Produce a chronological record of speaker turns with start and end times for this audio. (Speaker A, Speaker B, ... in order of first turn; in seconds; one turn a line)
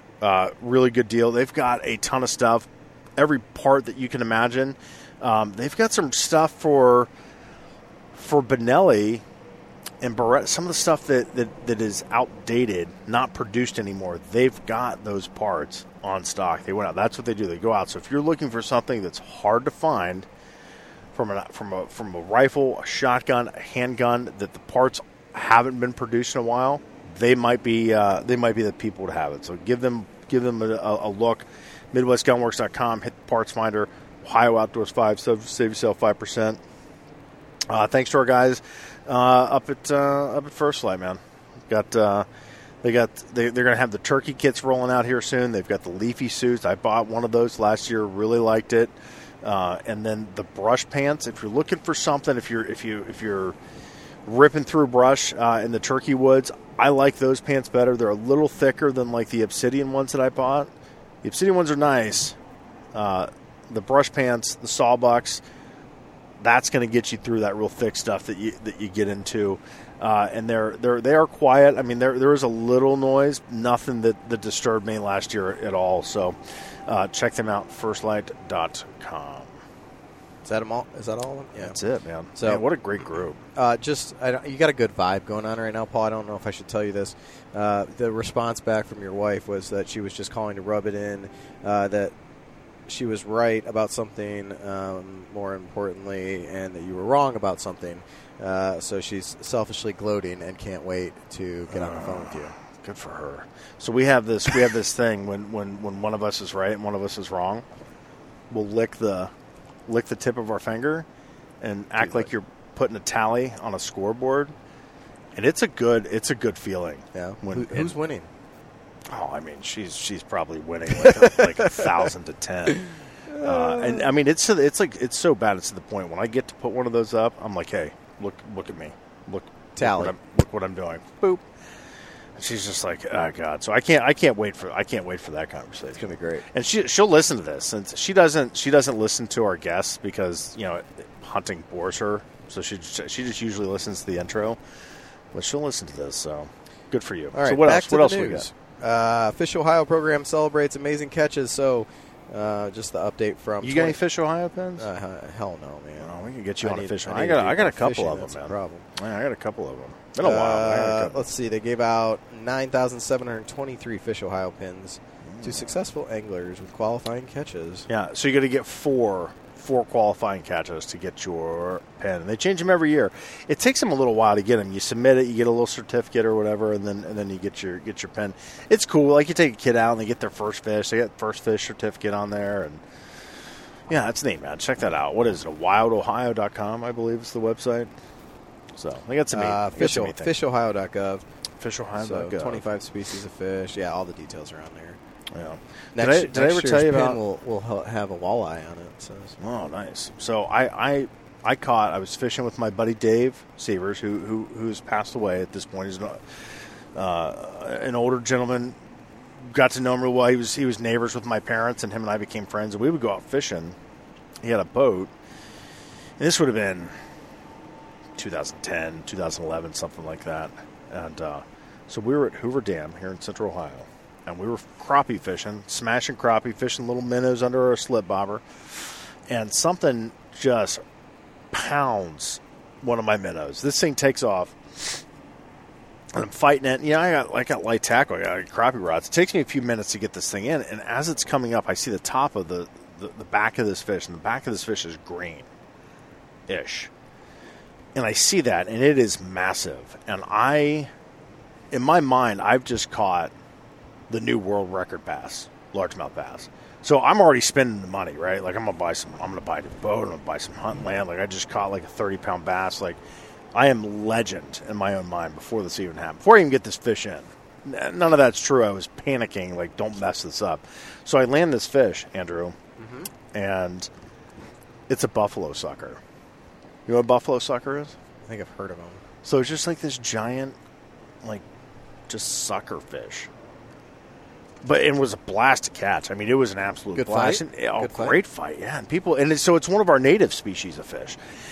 Speaker A: 0.2-7.1
Speaker A: 8.1-9.2
Speaker A: 10.0-20.3
Speaker A: 21.1-36.6
Speaker A: 37.7-42.2
Speaker A: 42.8-53.5
Speaker A: 54.2-60.7
Speaker A: 61.2-62.4
Speaker A: 62.9-65.4
Speaker A: 66.4-76.3
Speaker A: 76.9-79.5
Speaker B: 80.4-81.8
Speaker A: 81.5-83.4
Speaker B: 82.3-82.6
Speaker B: 83.5-92.1
Speaker B: 92.9-102.5
Speaker A: 101.7-107.6
Speaker A: 108.5-109.3
Speaker A: 109.9-111.0
Speaker A: 111.6-114.5
Speaker B: 112.0-112.3
Speaker A: 115.3-117.9
Speaker B: 117.1-118.3
Speaker A: 119.1-122.8
Speaker B: 120.9-121.8
Speaker B: 122.7-124.1
Speaker A: 123.4-131.4
Speaker B: 129.8-130.1
Speaker A: 132.4-144.6
Speaker B: 135.9-136.4
Speaker A: 145.3-148.5
Speaker B: 147.3-154.0
Speaker A: 153.6-154.9
Speaker B: 154.8-158.8
Speaker A: 156.0-161.2
Speaker B: 160.2-167.9
Speaker A: 165.2-165.7
Speaker A: 167.9-182.8
Speaker A: 183.9-187.9
Speaker A: 188.8-190.3
Speaker B: 189.3-191.2
Speaker A: 191.6-192.6
Speaker B: 192.0-195.0
Speaker A: 195.3-197.2
Speaker B: 195.9-199.3
Speaker A: 199.4-206.4
Speaker A: 206.9-208.8
Speaker A: 209.4-213.8
Speaker A: 214.4-215.1
Speaker A: 216.2-216.9
Speaker A: 218.2-230.8
Speaker A: 231.5-235.0
Speaker A: 236.1-245.5
Speaker A: 246.5-246.9
Speaker A: 247.9-250.9
Speaker A: 251.7-253.3
Speaker A: 254.1-263.0
Speaker A: 263.5-272.6
Speaker B: 272.8-273.1
Speaker A: 273.3-273.9
Speaker A: 274.9-276.0
Speaker A: 276.9-277.9
Speaker B: 278.3-279.0
Speaker A: 279.2-280.5
Speaker A: 282.1-283.3
Speaker A: 284.6-291.2
Speaker B: 286.9-288.1